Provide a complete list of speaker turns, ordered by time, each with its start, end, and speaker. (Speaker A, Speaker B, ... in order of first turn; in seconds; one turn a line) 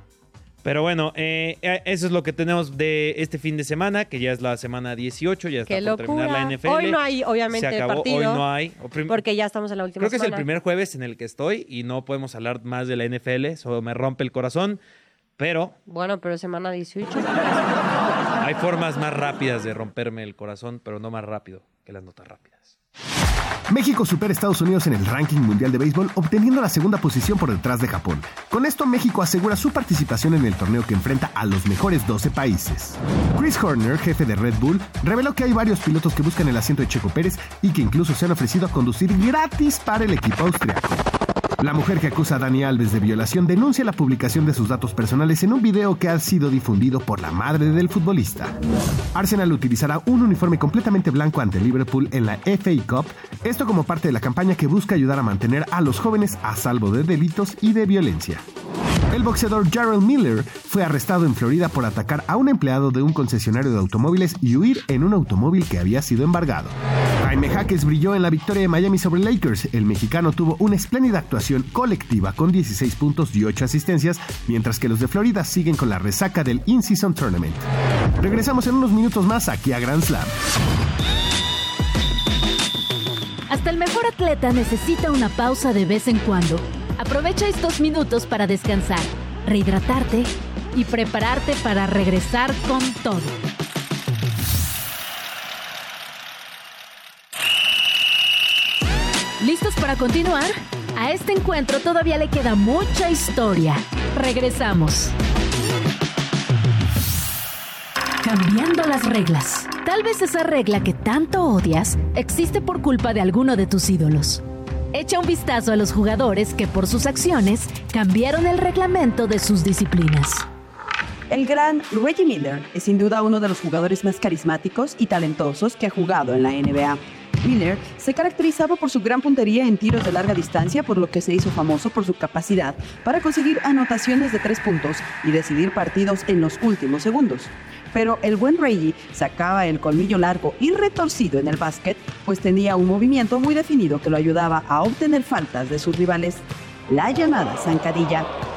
Speaker A: 0.6-9.2
Speaker B: 5.7-8.4
Speaker B: 9.1-10.5
Speaker A: 10.0-14.8
Speaker A: 15.4-15.8
Speaker B: 15.9-17.6
Speaker A: 18.4-22.8
Speaker C: 23.7-41.1
Speaker C: 41.6-48.6
Speaker C: 49.1-58.4
Speaker C: 59.1-77.7
Speaker C: 78.2-80.3
Speaker D: 83.5-93.4
Speaker D: 99.4-105.1
Speaker D: 108.2-120.5
Speaker E: 121.3-148.3